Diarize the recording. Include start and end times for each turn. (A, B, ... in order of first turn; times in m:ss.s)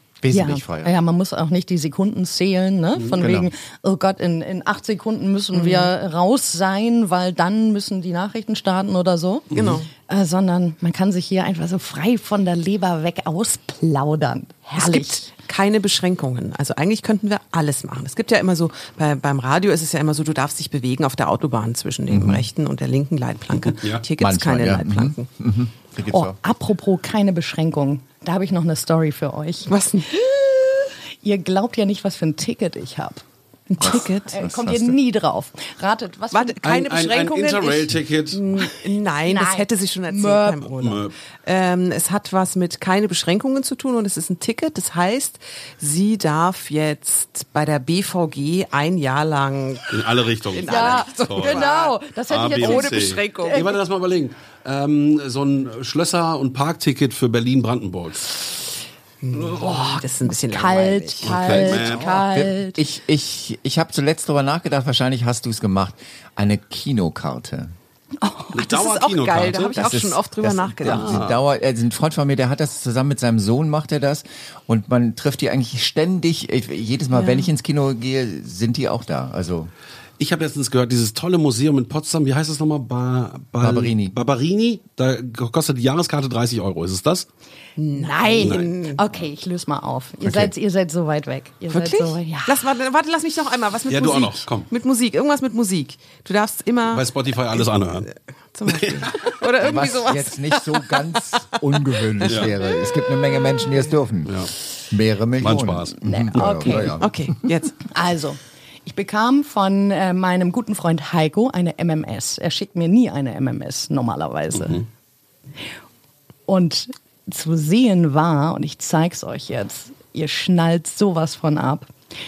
0:00.2-0:01.0 A
0:00.3-0:09.5 B
0:03.0-0:03.2 C
0:03.2-0:03.5 A
0:05.5-0:05.9 D
0:09.5-0:09.9 D
0:10.0-0:15.3 B
0:14.8-0:25.3 D
0:22.1-0:22.4 A
0:23.8-0:24.1 C
0:24.2-0:26.4 A
0:26.1-0:29.7 B
0:29.7-0:30.6 D
0:31.2-0:33.2 B
0:33.7-0:34.3 D
0:33.8-0:35.0 A
0:33.8-0:36.6 B
0:36.3-0:52.0 D
0:36.6-0:38.6 C
0:39.2-0:40.7 B
0:40.8-0:41.1 C
0:49.9-0:51.7 C
0:50.6-0:53.7 B
0:52.3-0:58.4 C
0:52.6-0:53.8 D
0:59.2-1:01.9 D
0:59.5-1:02.8 B
1:01.2-1:02.2 C
1:01.7-1:07.7 A
1:08.2-1:08.6 B
1:08.5-1:09.9 C
1:08.6-1:11.2 D
1:09.7-1:19.7 A
1:10.8-1:11.4 C
1:17.1-1:17.5 D
1:20.2-1:27.3 C
1:23.6-1:24.2 A
1:27.8-1:29.0 D
1:27.9-1:32.7 B
1:28.4-1:28.7 C
1:31.7-1:42.6 D
1:33.9-1:34.7 C
1:36.9-1:38.1 C
1:38.7-1:39.8 C
1:39.6-1:47.2 A
1:45.4-1:46.9 C
1:46.0-1:46.9 B
1:47.0-1:47.9 D
1:47.9-1:54.9 B
1:54.6-1:54.8 C
1:56.5-2:01.9 B